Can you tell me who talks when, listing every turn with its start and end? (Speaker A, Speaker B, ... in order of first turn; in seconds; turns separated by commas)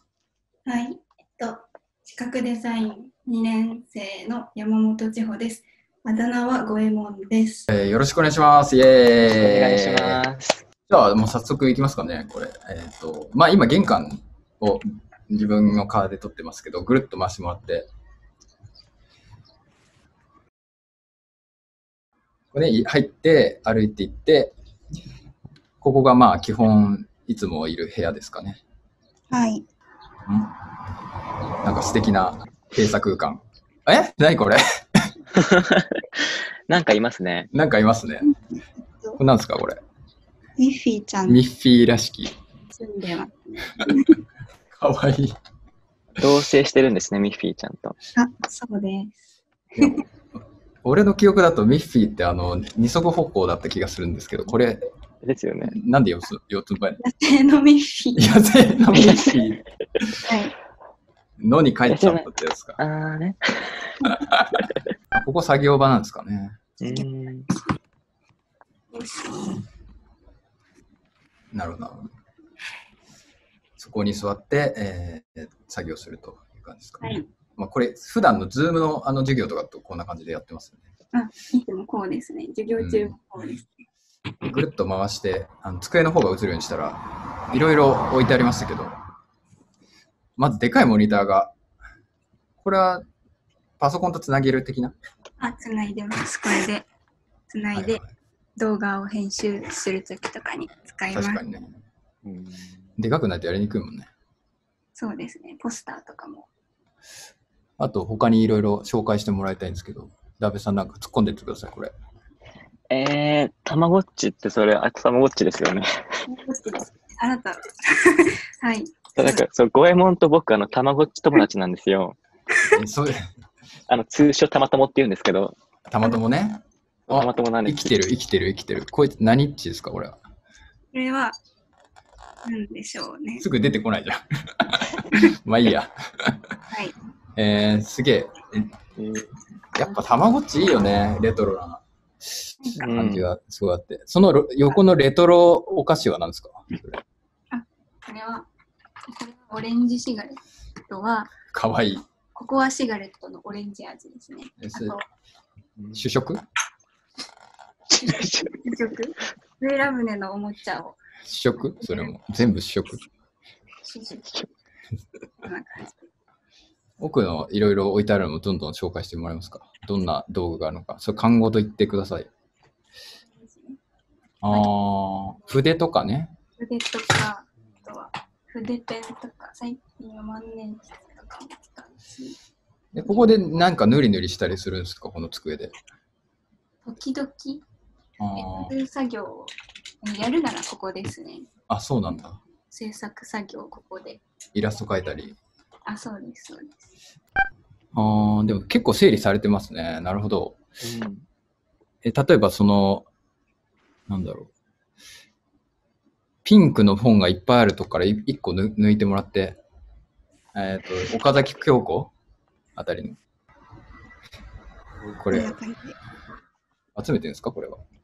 Speaker A: 0.7-7.7, Speaker B: 7.7-10.2, Speaker C: 9.4-10.6, Speaker B: 10.9-17.9, Speaker B: 22.5-24.5, Speaker B: 25.8-28.6, Speaker A: 29.3-29.6, Speaker B: 31.6-34.6, Speaker C: 35.4-37.5, Speaker B: 37.5-38.3, Speaker A: 38.2-39.2, Speaker B: 39.2-39.8, Speaker A: 40.6-41.4, Speaker B: 41.3-42.3, Speaker A: 42.7-44.2, Speaker B: 44.7-45.4, Speaker C: 46.2-48.0, Speaker A: 48.1-49.1, Speaker B: 49.8-54.9, Speaker C: 55.2-55.8, Speaker B: 55.7-57.0, Speaker A: 57.0-58.3, Speaker B: 58.2-60.0, Speaker C: 58.9-59.4, Speaker A: 60.2-60.5, Speaker B: 61.4-62.8, Speaker C: 61.9-62.3, Speaker C: 62.8-64.0, Speaker B: 64.3-66.6, Speaker C: 66.8-67.5, Speaker A: 68.9-69.6, Speaker B: 71.5-72.1, Speaker B: 73.8-80.9, Speaker A: 77.0-77.3, Speaker A: 81.1-83.7, Speaker B: 82.7-83.2, Speaker B: 84.4-88.9, Speaker B: 90.4-91.5, Speaker B: 92.6-93.0, Speaker B: 93.8-94.9, Speaker A: 95.4-96.9, Speaker A: 97.5-98.0, Speaker B: 97.7-98.0, Speaker A: 98.6-101.4, Speaker B: 101.1-101.8, Speaker C: 102.2-102.7, Speaker B: 103.0-104.1, Speaker A: 105.0-106.5, Speaker B: 107.8-111.9, Speaker C: 112.9-116.2, Speaker A: 116.3-119.5, Speaker C: 119.2-122.2, Speaker B: 122.7-123.3, Speaker C: 123.9-125.5, Speaker B: 125.9-130.2, Speaker C: 127.1-127.9, Speaker A: 130.9-131.3, Speaker A: 132.4-133.4, Speaker B: 133.4-136.3, Speaker B: 137.4-138.7, Speaker C: 139.0-139.3, Speaker B: 139.8-141.8, Speaker B: 142.4-147.0, Speaker A: 142.6-142.9, Speaker C: 142.8-143.3, Speaker A: 147.5-148.5, Speaker A: 149.1-151.3, Speaker B: 151.5-152.1, Speaker A: 152.3-155.0, Speaker B: 154.6-155.0, Speaker B: 155.9-156.4, Speaker C: 157.9-158.5, Speaker A: 158.0-161.0, Speaker B: 161.2-163.0, Speaker A: 161.8-162.1, Speaker A: 163.8-164.5, Speaker A: 165.4-166.1, Speaker B: 167.0-172.3, Speaker A: 173.3-173.8, Speaker B: 174.4-176.3, Speaker A: 174.5-174.7, Speaker A: 176.6-182.4, Speaker B: 182.9-185.7, Speaker A: 183.0-183.3, Speaker A: 186.8-187.6, Speaker B: 188.2-188.7, Speaker A: 188.3-191.5, Speaker B: 191.7-192.4, Speaker A: 192.7-194.2, Speaker B: 194.6-195.4, Speaker A: 195.9-196.9, Speaker B: 197.9-200.6, Speaker C: 200.8-201.2, Speaker B: 202.0-203.1, Speaker B: 204.1-204.5, Speaker B: 206.4-209.6, Speaker B: 210.6-212.1, Speaker B: 212.8-213.2, Speaker B: 215.1-215.6, Speaker A: 215.3-216.0, Speaker B: 216.9-217.8